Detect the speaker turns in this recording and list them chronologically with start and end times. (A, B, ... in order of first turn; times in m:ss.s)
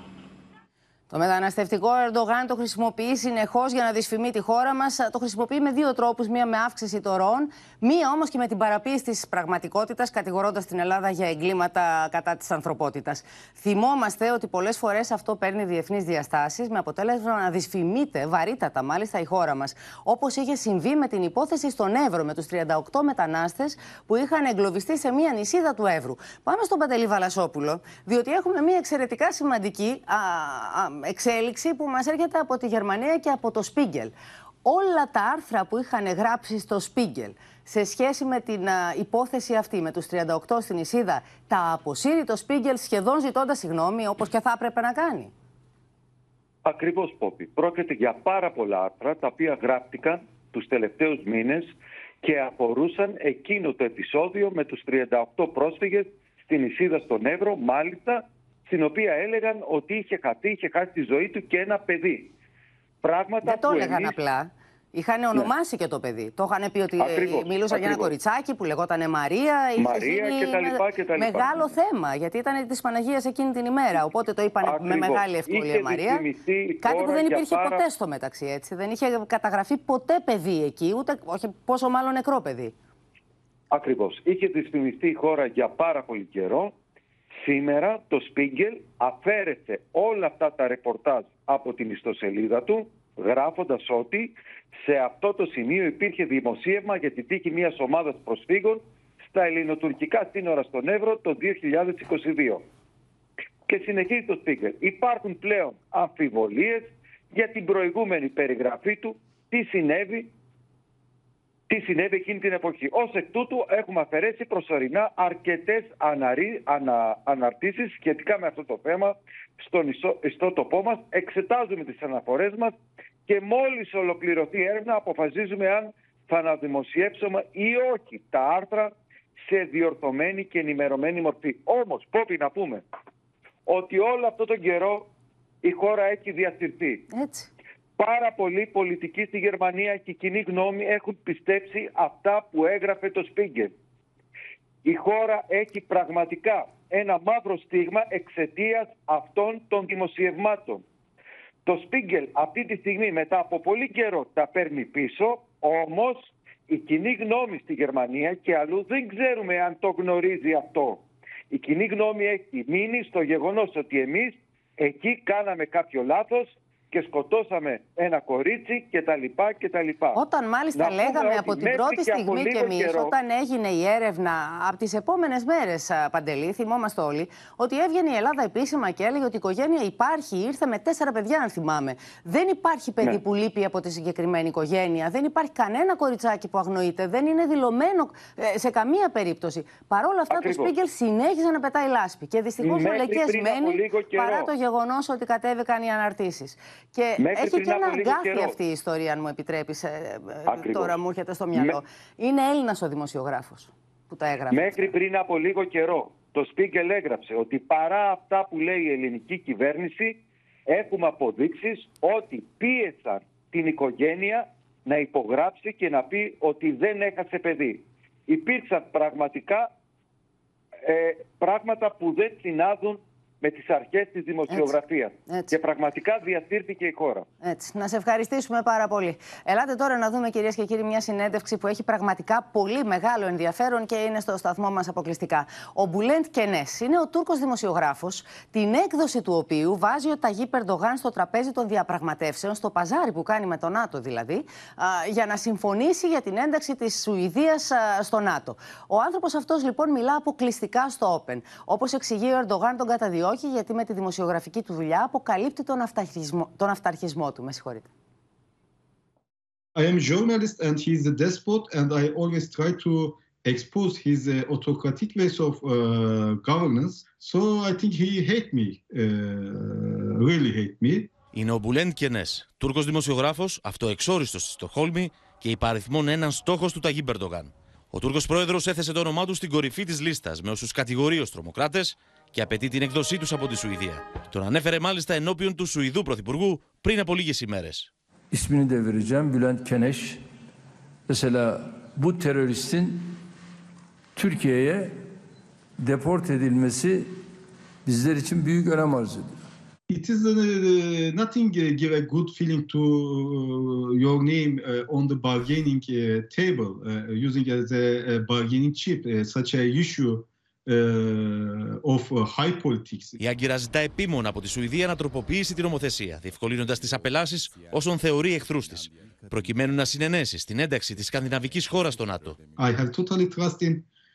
0:01.1-0:34.1 A
0:34.6-0:45.3 A
0:46.6-0:51.7 B
0:52.2-1:02.3 B
1:03.0-1:04.1 B
1:03.4-1:16.2 A
1:07.0-1:08.1 B
1:09.8-1:11.7 B
1:14.6-1:17.8 B
1:16.8-1:22.7 A
1:23.7-1:26.7 B
1:27.4-1:38.8 B
1:39.3-1:42.6 B
1:43.7-1:50.3 B
1:51.7-2:02.7 B
2:03.3-2:08.9 B
2:09.5-2:12.8 B
2:13.7-2:15.0 B
2:15.6-2:17.0 B
2:17.1-2:17.5 A
2:18.0-2:23.7 B
2:24.8-2:30.8 B
2:31.6-2:41.0 B
2:41.5-2:50.2 B
2:50.1-3:24.9 A
2:50.7-2:53.1 B
3:10.3-3:10.7 B
3:12.6-3:14.5 B
3:17.2-3:18.5 B
3:20.5-3:20.9 B
3:24.5-3:39.7 B
3:40.9-3:47.2 B
3:44.5-3:45.5 A
3:47.4-4:17.9 A
4:19.7-4:31.1 C
4:31.3-4:47.9 D
4:48.3-4:50.2 E
4:51.1-4:53.2 E
4:54.1-4:55.0 E
4:55.8-4:57.2 E
4:57.8-4:59.4 E
4:59.9-5:13.2 C
5:13.2-5:22.4 D
5:16.9-5:19.7 C
5:21.0-5:23.8 C